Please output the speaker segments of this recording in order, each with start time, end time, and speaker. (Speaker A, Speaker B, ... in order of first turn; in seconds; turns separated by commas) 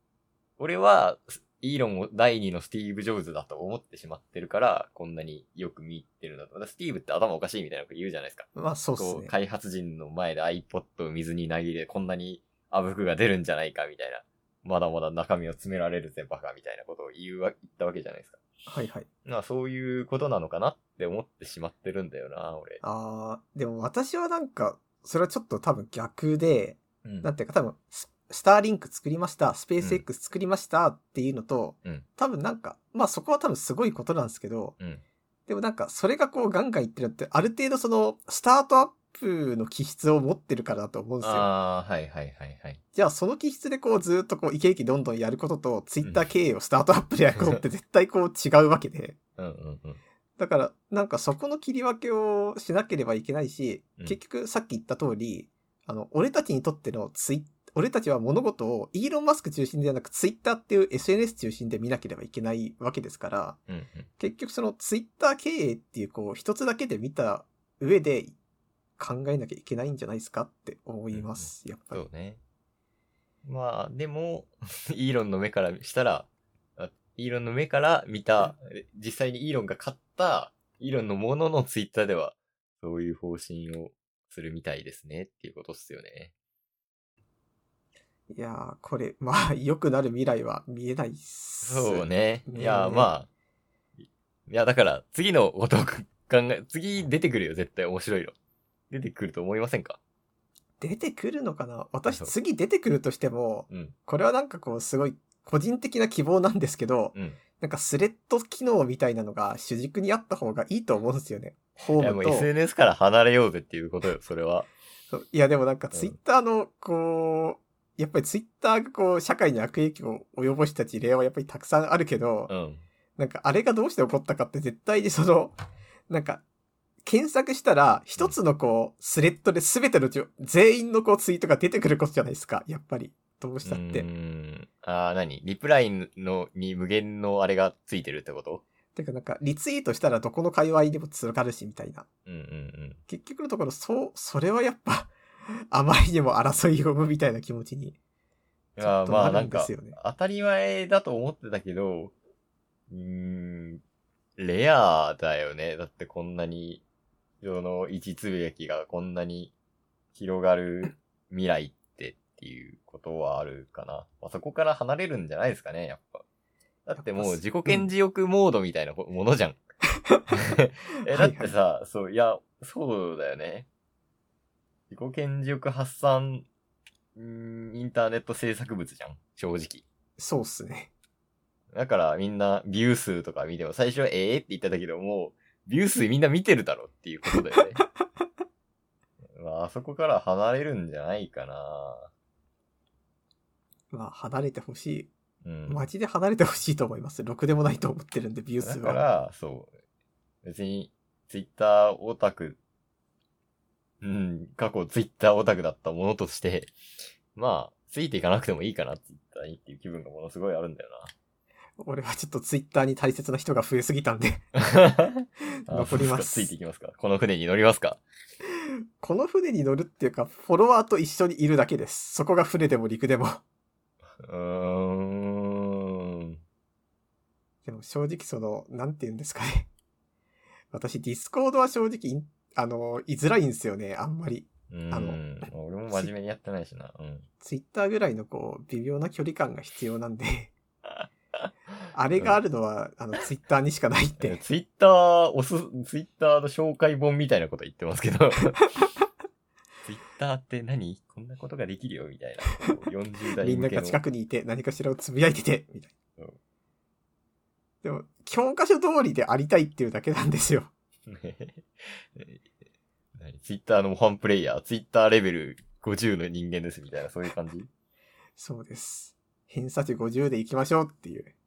Speaker A: 0.6-18.4, Speaker B: 8.6-9.3, Speaker B: 18.7-19.1, Speaker A: 19.2-22.8, Speaker B: 22.8-34.8, Speaker A: 27.0-27.3, Speaker A: 29.8-30.1, Speaker B: 35.5-41.5, Speaker A: 41.2-42.8, Speaker B: 42.9-49.2, Speaker A: 47.4-47.6, Speaker A: 49.4-50.0, Speaker B: 50.4-63.6, Speaker A: 63.7-64.1, Speaker B: 64.2-68.3, Speaker B: 69.0-72.0, Speaker A: 71.1-72.4, Speaker A: 73.5-86.3, Speaker B: 88.3-93.1, Speaker A: 91.6-93.3, Speaker A: 94.0-98.3, Speaker A: 98.9-100.0, Speaker B: 100.8-112.5, Speaker A: 103.7-104.0, Speaker A: 112.0-114.7, Speaker B: 115.1-122.5, Speaker A: 115.9-116.2, Speaker A: 122.5-122.8, Speaker B: 123.2-125.6, Speaker B: 126.1-126.4, Speaker B: 127.0-134.1, Speaker A: 133.6-138.6, Speaker B: 138.9-142.1, Speaker A: 142.3-143.0, Speaker B: 143.1-148.0, Speaker A: 148.8-152.1, Speaker B: 148.8-150.0, Speaker A: 152.9-153.8, Speaker A: 154.4-156.8, Speaker A: 157.4-159.5, Speaker A: 160.2-166.2, Speaker A: 166.9-169.6, Speaker B: 167.0-167.9, Speaker A: 170.3-173.7, Speaker B: 171.0-171.5, Speaker A: 174.9-176.5, Speaker A: 177.2-179.8, Speaker B: 180.2-180.9, Speaker A: 181.7-187.8, Speaker A: 189.3-192.1, Speaker B: 193.9-195.1, Speaker A: 195.4-195.8, Speaker B: 195.7-199.0, Speaker A: 198.6-199.7, Speaker A: 200.4-202.6, Speaker A: 204.0-206.7, Speaker A: 207.3-211.1, Speaker B: 211.8-214.5, Speaker A: 214.6-218.0, Speaker B: 215.6-216.5, Speaker B: 219.0-223.4, Speaker A: 224.2-226.4, Speaker B: 227.7-229.7, Speaker B: 230.7-235.2, Speaker A: 234.7-237.3, Speaker B: 237.4-240.5, Speaker B: 241.9-244.4, Speaker A: 244.2-248.7, Speaker A: 249.9-254.0, Speaker B: 253.4-255.9, Speaker B: 257.8-260.7, Speaker A: 261.1-262.4, Speaker A: 263.1-267.7, Speaker B: 268.4-271.3